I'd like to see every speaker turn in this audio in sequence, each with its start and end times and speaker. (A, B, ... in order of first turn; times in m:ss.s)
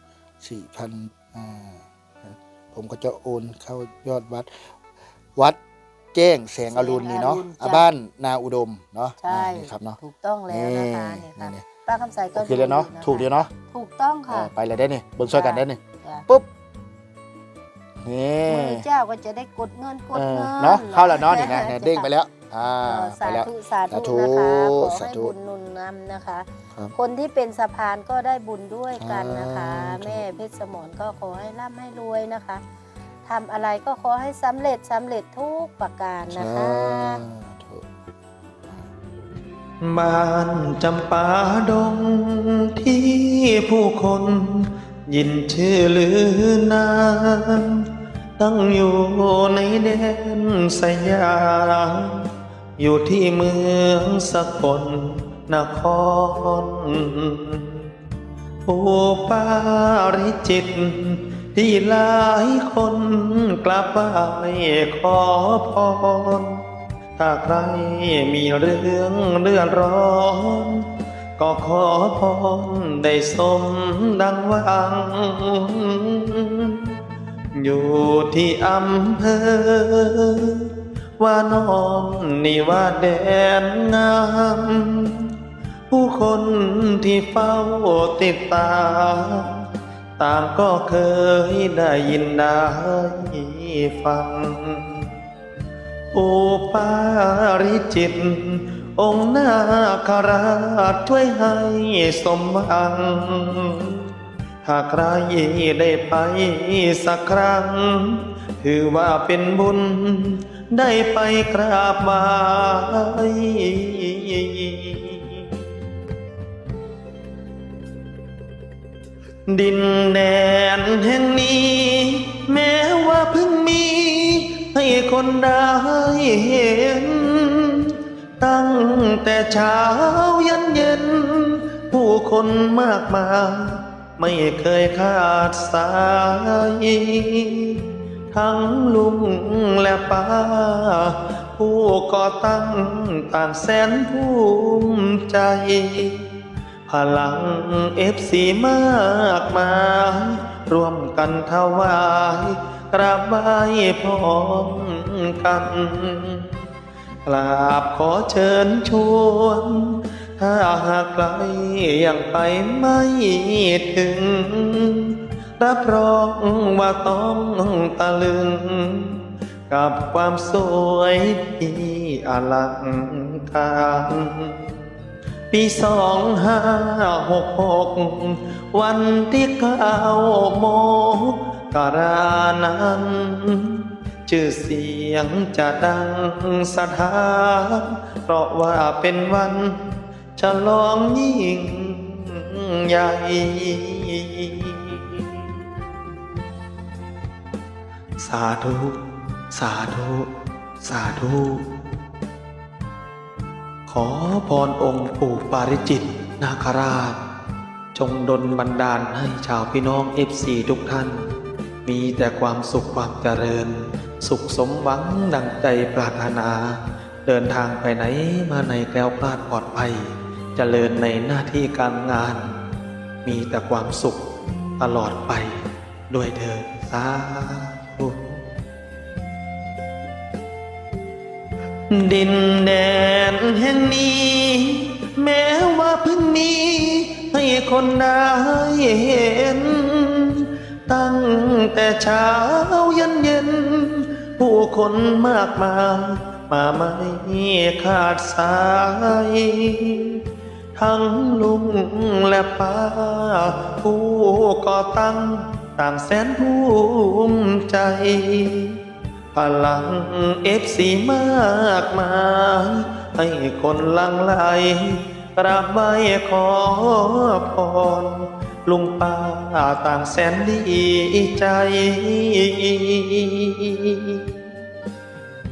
0:00.4-0:04.7 A
0:06.1-0:11.7 A
0:06.7-0:07.9 B
0:09.2-0:14.5 B
0:12.4-0:13.5 A
0:14.3-0:16.5 A
0:15.3-0:16.3 B
0:18.0-0:18.8 A
0:18.4-0:22.1 B
0:20.1-0:25.3 A
0:22.8-0:32.6 B
0:29.0-0:30.3 A
0:33.2-0:37.2 B
0:36.3-0:37.9 A
0:39.8-0:47.8 C
0:48.4-0:52.3 C
0:52.8-0:57.8 C
0:58.7-1:06.6 C
1:07.2-1:10.8 C
1:11.4-1:16.9 C
1:17.6-1:25.3 C
1:25.9-1:29.6 C
1:30.2-1:35.1 C
1:36.1-1:44.0 C
1:44.6-1:55.5 C
1:59.5-2:17.8 C
2:18.3-2:26.3 C
2:26.9-2:36.6 C
2:37.3-2:49.2 C
2:49.7-2:54.7 C
2:55.5-3:15.2 C
3:18.2-3:19.0 C
3:19.5-3:20.3 C
3:20.8-3:21.6 C
3:23.9-3:27.2 C
3:28.0-3:31.3 C
3:31.8-3:42.5 C
3:43.2-3:44.3 C
3:44.8-3:48.4 C
3:51.9-4:10.2 C
4:10.8-4:18.8 C
4:19.3-4:34.2 C